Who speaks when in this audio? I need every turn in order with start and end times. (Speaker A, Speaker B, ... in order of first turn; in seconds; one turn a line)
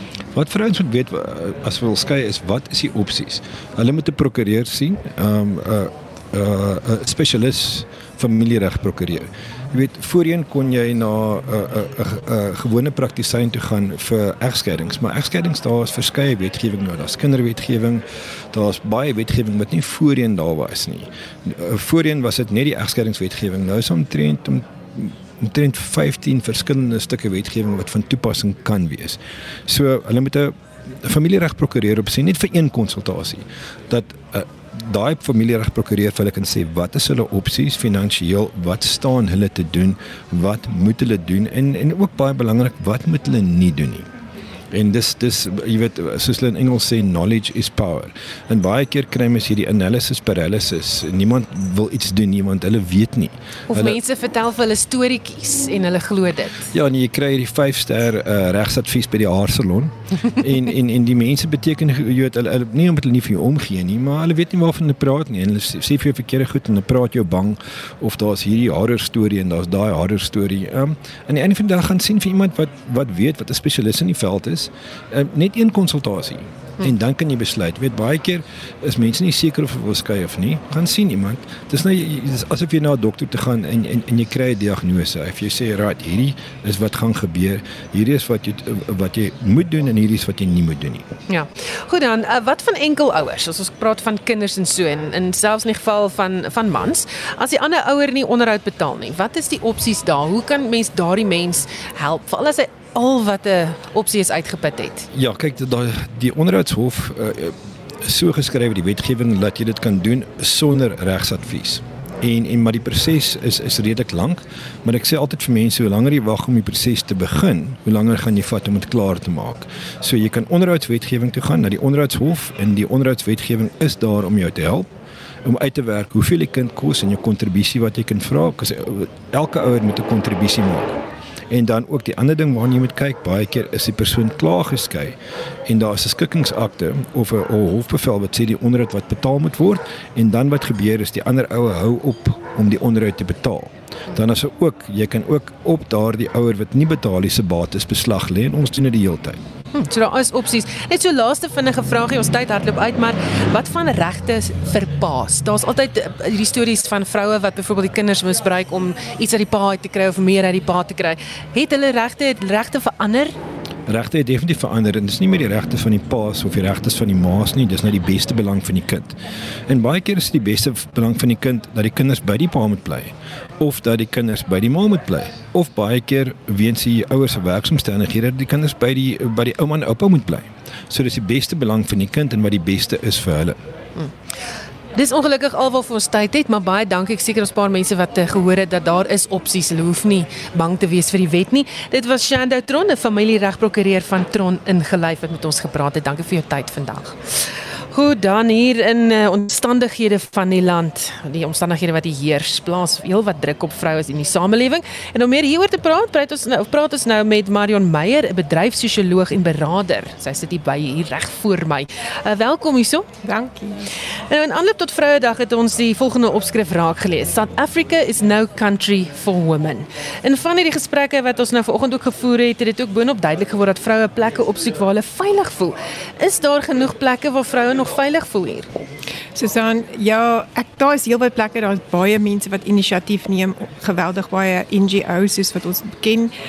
Speaker A: 0.3-44.1
Speaker A: 44.7-54.0
Speaker B: 53.7-56.7
Speaker A: 56.7-91.0
Speaker B: 91.3-105.1
Speaker A: 105.1-124.9
Speaker A: 125.4-130.9
Speaker A: 131.5-149.4
Speaker B: 149.7-163.4
Speaker A: 163.9-169.2
Speaker A: 169.7-183.6
Speaker B: 184.9-213.1
Speaker C: 213.2-213.8
Speaker B: 214.3-228.7
Speaker C: 229.3-236.3